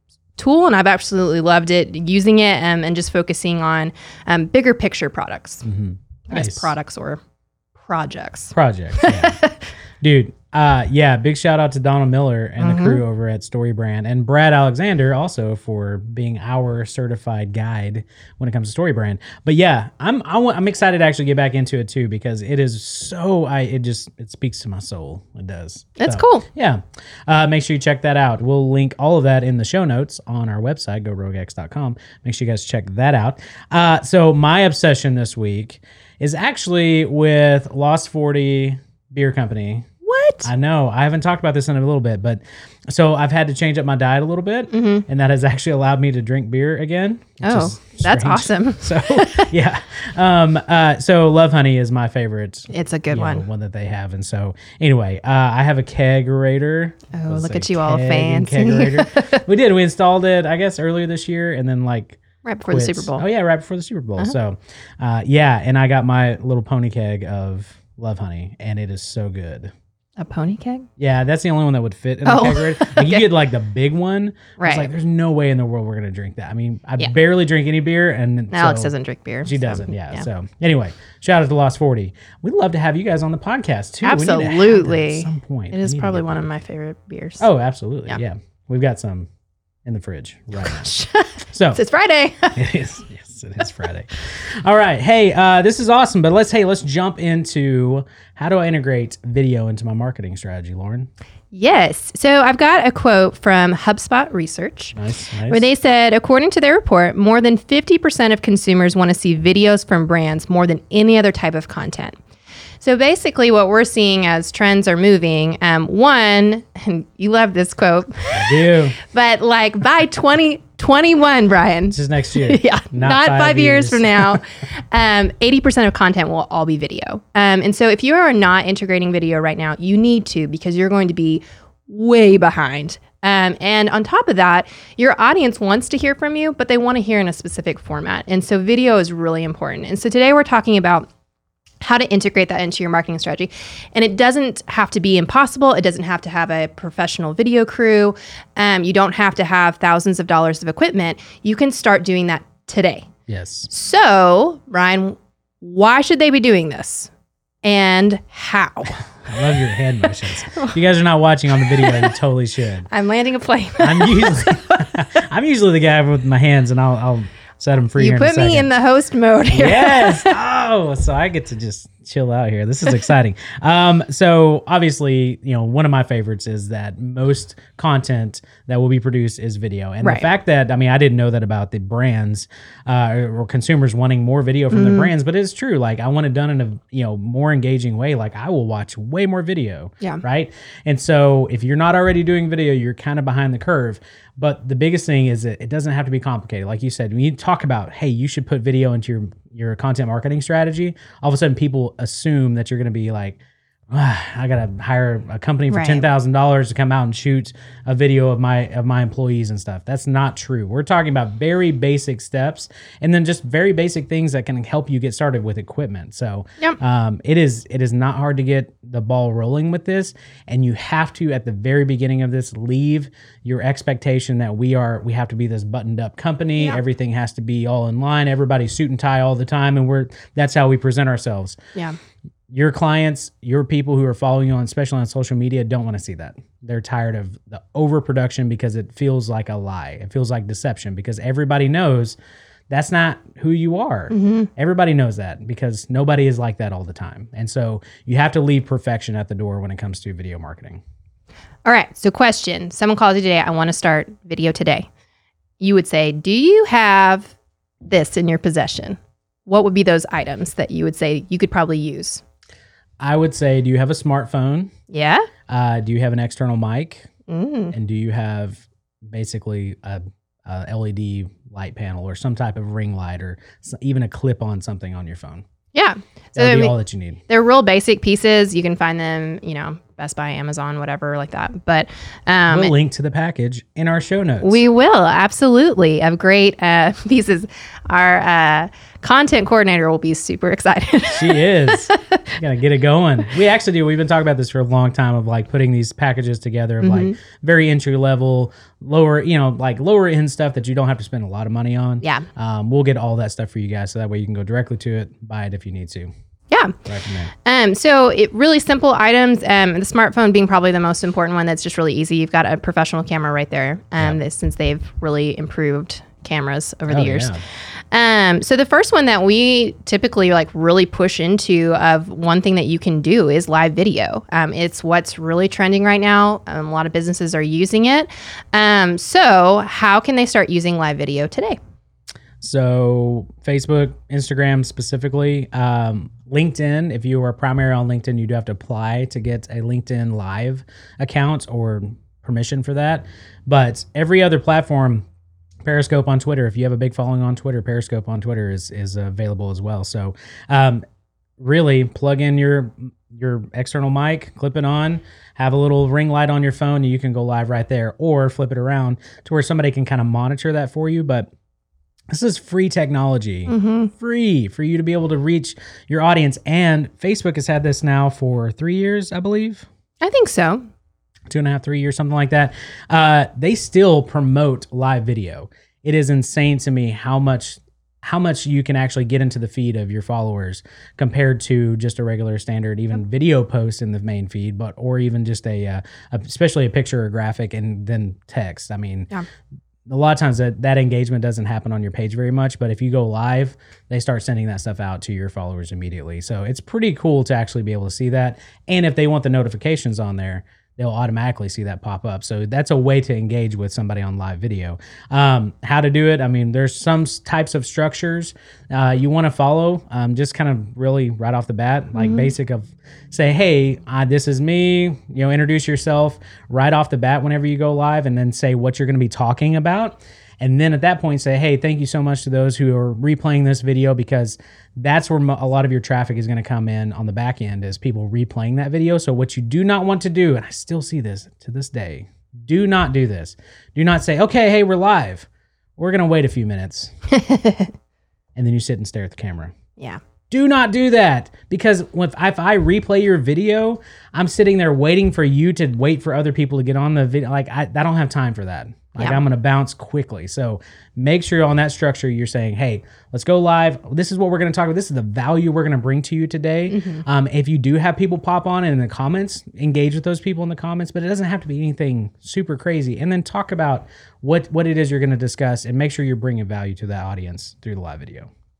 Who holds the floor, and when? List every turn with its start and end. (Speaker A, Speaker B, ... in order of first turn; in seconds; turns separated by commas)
Speaker A: 0.4-5.6, Speaker B: 5.6-6.7, Speaker A: 6.3-7.2, Speaker A: 7.8-9.6, Speaker B: 8.5-9.4, Speaker B: 10.0-39.9, Speaker A: 12.6-13.0, Speaker A: 26.0-26.4, Speaker A: 40.0-40.5, Speaker B: 40.4-69.7, Speaker A: 44.7-45.0, Speaker A: 47.4-49.5, Speaker A: 52.7-53.4, Speaker A: 57.1-59.4, Speaker A: 62.4-63.2, Speaker A: 70.2-70.9, Speaker B: 71.0-78.9, Speaker A: 72.2-73.3, Speaker A: 74.6-74.9, Speaker A: 78.5-80.2, Speaker B: 79.4-86.4, Speaker A: 84.0-87.5, Speaker B: 87.4-89.3, Speaker B: 89.8-90.9, Speaker A: 90.6-92.6, Speaker B: 91.5-91.8, Speaker B: 92.5-101.1, Speaker A: 101.5-105.0, Speaker B: 104.9-105.7, Speaker A: 105.5-112.2, Speaker A: 112.8-141.1, Speaker B: 118.3-119.0, Speaker B: 121.9-124.4, Speaker A: 141.8-153.1, Speaker B: 153.3-153.7, Speaker A: 153.7-157.1, Speaker A: 157.6-159.0, Speaker B: 159.2-162.9, Speaker A: 161.8-162.1, Speaker A: 162.9-164.8, Speaker B: 163.8-168.7, Speaker A: 167.9-170.4, Speaker B: 169.5-231.6, Speaker A: 184.7-185.1, Speaker A: 205.7-206.1, Speaker B: 232.5-242.2, Speaker B: 242.7-250.8, Speaker A: 244.1-244.5, Speaker A: 251.6-254.9, Speaker A: 255.6-257.3, Speaker A: 257.8-262.2, Speaker B: 263.0-264.7, Speaker A: 264.9-265.2, Speaker B: 265.5-267.1, Speaker A: 267.3-267.7, Speaker B: 267.7-275.4, Speaker A: 275.7-276.7, Speaker B: 276.3-277.2, Speaker A: 277.3-282.7, Speaker B: 282.5-284.6, Speaker A: 284.4-292.2, Speaker B: 291.1-306.1, Speaker A: 296.8-297.1, Speaker A: 306.5-306.8, Speaker B: 306.8-307.3, Speaker A: 307.4-317.3, Speaker B: 316.9-317.4, Speaker A: 317.9-331.6, Speaker B: 332.4-345.1, Speaker B: 345.6-350.8, Speaker B: 351.4-361.3, Speaker B: 362.1-369.7, Speaker A: 363.5-363.9, Speaker A: 370.0-370.6, Speaker B: 371.3-389.1, Speaker B: 389.9-436.9, Speaker A: 411.9-412.3, Speaker A: 437.1-437.7, Speaker B: 438.4-439.5, Speaker B: 440.3-468.3, Speaker A: 456.7-457.0